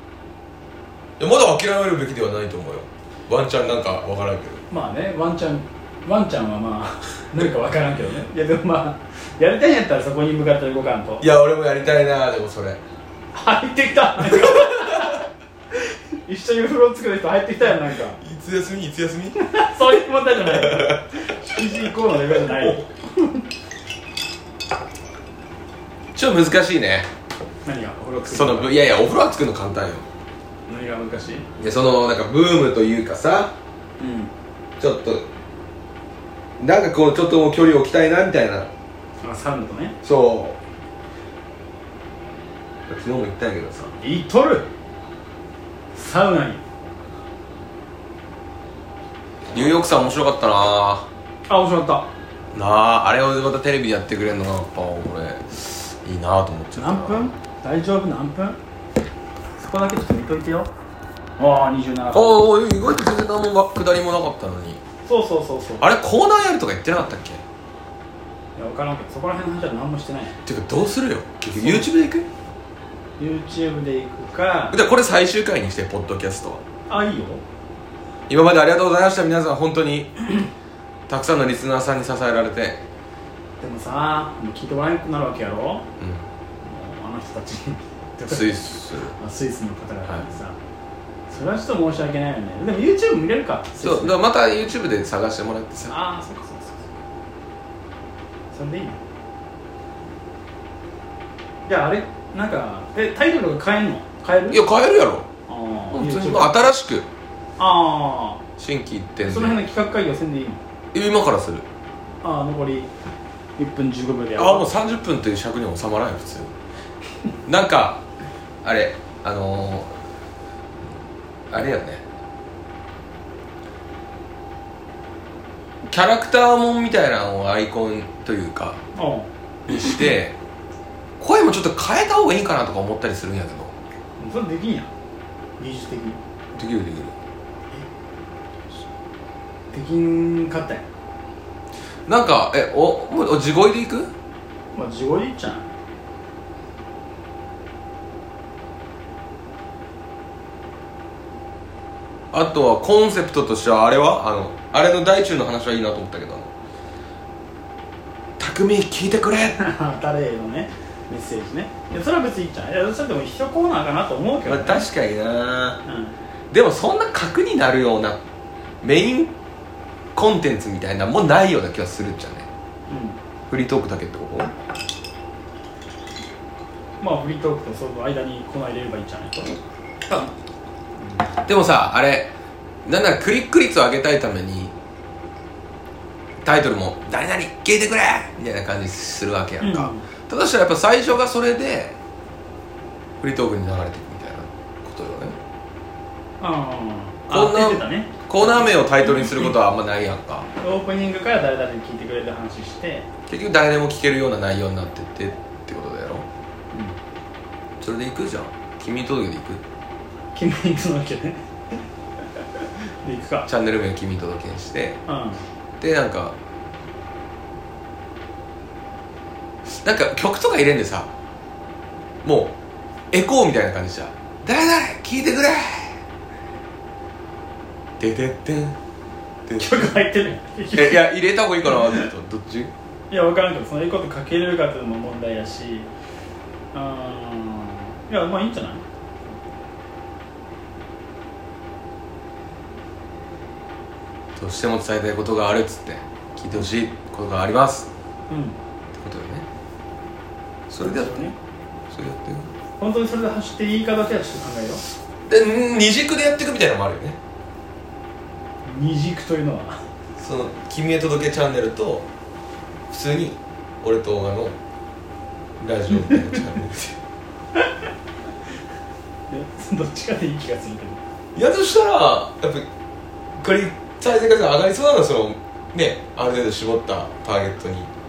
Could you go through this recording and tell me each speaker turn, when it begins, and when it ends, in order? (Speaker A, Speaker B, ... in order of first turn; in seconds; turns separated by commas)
Speaker A: 1.2-4.6, Speaker B: 4.7-11.3, Speaker A: 11.2-12.8, Speaker B: 13.3-18.2, Speaker A: 14.3-15.2, Speaker A: 18.2-19.6, Speaker B: 19.4-23.4, Speaker A: 20.4-21.0, Speaker A: 22.3-22.8, Speaker A: 26.1-27.1, Speaker B: 27.6-28.7, Speaker A: 28.3-30.1, Speaker B: 30.7-31.5, Speaker A: 31.6-33.5, Speaker B: 34.0-34.3, Speaker A: 34.8-35.3, Speaker A: 36.6-38.7, Speaker B: 39.2-40.0, Speaker A: 40.0-40.6, Speaker A: 42.9-43.9, Speaker B: 44.0-44.7, Speaker B: 46.0-46.6, Speaker A: 49.5-51.1, Speaker B: 51.5-52.1, Speaker A: 52.5-57.3, Speaker B: 56.8-58.6, Speaker B: 59.6-60.7, Speaker B: 61.4-62.5, Speaker A: 62.1-64.8, Speaker B: 65.1-65.9, Speaker A: 65.8-67.4, Speaker B: 68.6-70.4, Speaker A: 70.5-72.3, Speaker B: 71.5-71.9, Speaker B: 73.2-74.8, Speaker A: 74.7-76.6, Speaker B: 76.9-77.4, Speaker A: 78.3-80.2, Speaker A: 81.1-82.8, Speaker B: 83.6-85.9, Speaker A: 86.0-86.2, Speaker B: 86.6-90.6, Speaker A: 88.3-89.1, Speaker B: 91.3-94.2, Speaker A: 93.8-96.0, Speaker B: 95.9-96.9, Speaker B: 98.5-99.0, Speaker B: 101.7-104.6, Speaker A: 104.5-105.3, Speaker B: 105.5-106.6, Speaker A: 105.9-107.1, Speaker B: 107.6-108.4, Speaker A: 108.6-109.6, Speaker B: 109.2-110.6, Speaker A: 110.9-111.7, Speaker B: 112.2-112.9, Speaker B: 113.6-114.7, Speaker A: 114.4-116.5, Speaker A: 117.5-118.0, Speaker A: 118.6-119.9, Speaker A: 121.5-122.0, Speaker A: 125.9-128.8, Speaker B: 128.9-129.3, Speaker A: 129.7-130.4, Speaker A: 131.2-133.7, Speaker B: 134.2-134.9, Speaker B: 135.6-136.2, Speaker A: 136.6-137.1, Speaker B: 139.7-140.8, Speaker A: 142.1-144.1, Speaker B: 144.8-145.7, Speaker A: 152.3-156.5, Speaker A: 158.4-159.6, Speaker B: 159.6-164.9, Speaker A: 164.5-165.8, Speaker B: 165.9-166.2, Speaker A: 166.5-168.2, Speaker A: 168.8-169.3, Speaker A: 170.2-172.5, Speaker B: 172.9-173.2, Speaker A: 173.5-174.5, Speaker B: 177.0-180.3, Speaker B: 181.0-181.3, Speaker A: 181.4-182.3, Speaker A: 182.8-184.7, Speaker A: 186.4-192.0, Speaker B: 189.6-190.0, Speaker A: 193.2-195.4, Speaker B: 196.4-199.5, Speaker A: 197.3-200.5, Speaker B: 200.6-203.1, Speaker A: 203.3-206.3, Speaker A: 207.8-209.6, Speaker B: 210.3-211.8, Speaker B: 212.3-213.5, Speaker A: 213.5-215.0, Speaker B: 215.1-215.4, Speaker A: 215.8-216.4, Speaker A: 219.7-221.1, Speaker A: 222.2-222.6, Speaker A: 223.1-226.0, Speaker A: 228.0-228.8, Speaker A: 229.5-230.0, Speaker B: 229.5-232.1, Speaker A: 230.7-232.7, Speaker B: 233.1-235.9, Speaker B: 236.7-238.8, Speaker A: 244.4-247.9, Speaker B: 248.3-248.6, Speaker A: 248.9-249.5, Speaker A: 250.7-251.3, Speaker B: 250.8-251.3, Speaker A: 251.9-252.5, Speaker B: 252.8-254.8, Speaker A: 255.3-257.2, Speaker B: 258.6-259.9, Speaker A: 260.2-262.1, Speaker A: 262.9-264.6, Speaker A: 265.6-267.0, Speaker B: 269.3-271.0, Speaker A: 271.4-272.7, Speaker A: 273.4-277.9